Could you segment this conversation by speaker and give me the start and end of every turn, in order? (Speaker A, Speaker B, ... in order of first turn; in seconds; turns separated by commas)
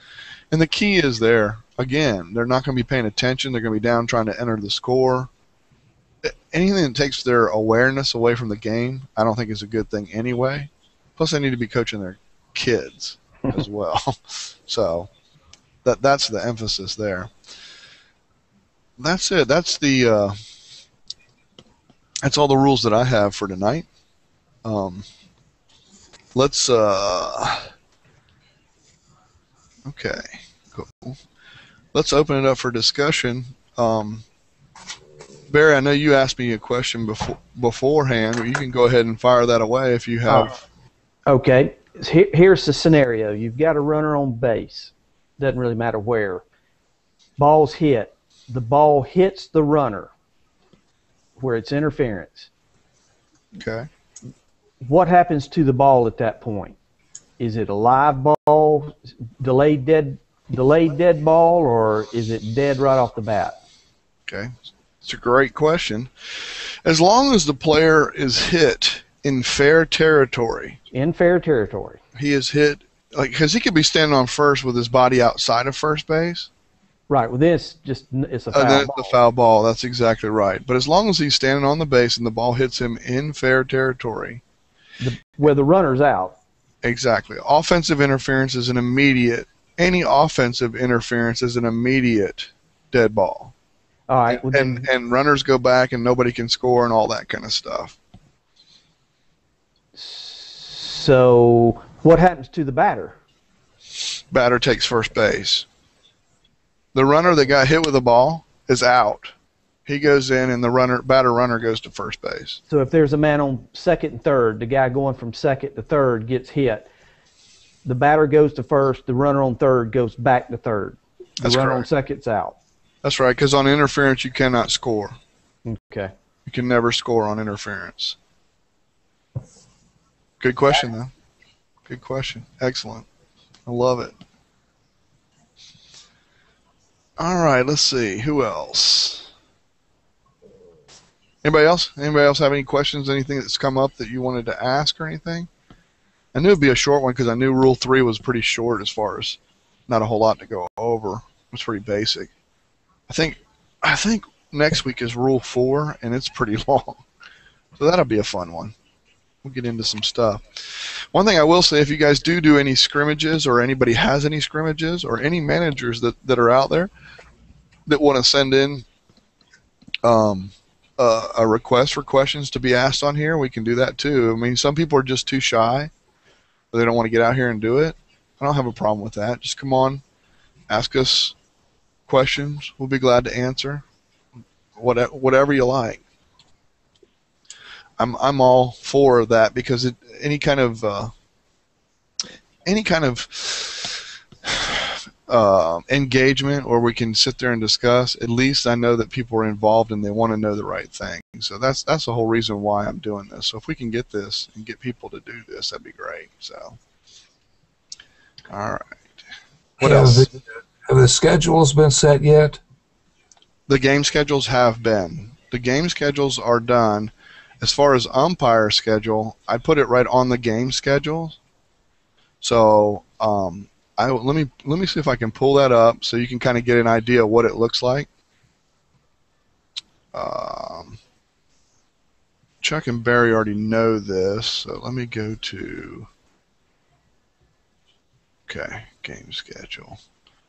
Speaker A: 0.5-5.3, Speaker A: 6.2-15.1, Speaker A: 15.8-17.3, Speaker A: 19.0-20.4, Speaker A: 22.2-23.9, Speaker A: 24.6-25.0, Speaker A: 26.3-27.7, Speaker A: 29.9-31.2, Speaker A: 31.9-34.2, Speaker A: 35.5-40.5, Speaker B: 41.3-46.4, Speaker B: 47.4-50.1, Speaker B: 51.4-52.5, Speaker A: 53.5-53.9, Speaker B: 54.8-56.7, Speaker B: 57.4-63.5, Speaker A: 64.3-70.8, Speaker B: 70.9-72.0, Speaker A: 72.2-76.5, Speaker B: 77.1-79.1, Speaker A: 78.5-84.4, Speaker B: 85.0-86.3, Speaker A: 86.8-93.5, Speaker B: 94.1-94.8, Speaker A: 94.3-98.0, Speaker B: 100.0-103.1, Speaker A: 104.3-105.7, Speaker A: 106.9-109.3, Speaker A: 109.8-112.6, Speaker B: 112.7-116.8, Speaker B: 117.8-122.5, Speaker A: 121.4-121.9, Speaker A: 123.0-125.2, Speaker B: 125.6-126.1, Speaker A: 126.5-128.2, Speaker A: 130.4-131.1, Speaker A: 131.9-133.1, Speaker A: 133.7-134.1, Speaker A: 137.2-139.3, Speaker A: 141.4-145.5, Speaker A: 146.3-152.3, Speaker A: 153.1-157.0, Speaker A: 157.8-158.7, Speaker A: 159.4-166.9, Speaker A: 167.9-168.8, Speaker A: 170.0-175.9, Speaker A: 176.7-180.0, Speaker A: 180.7-181.3, Speaker A: 182.1-183.8, Speaker A: 184.8-186.0, Speaker A: 188.0-191.1, Speaker A: 192.7-206.8, Speaker A: 208.5-209.2, Speaker C: 209.8-212.6, Speaker A: 209.8-210.3, Speaker A: 213.7-221.4, Speaker A: 222.4-228.1, Speaker A: 230.1-231.0, Speaker A: 232.6-236.1, Speaker A: 238.5-240.0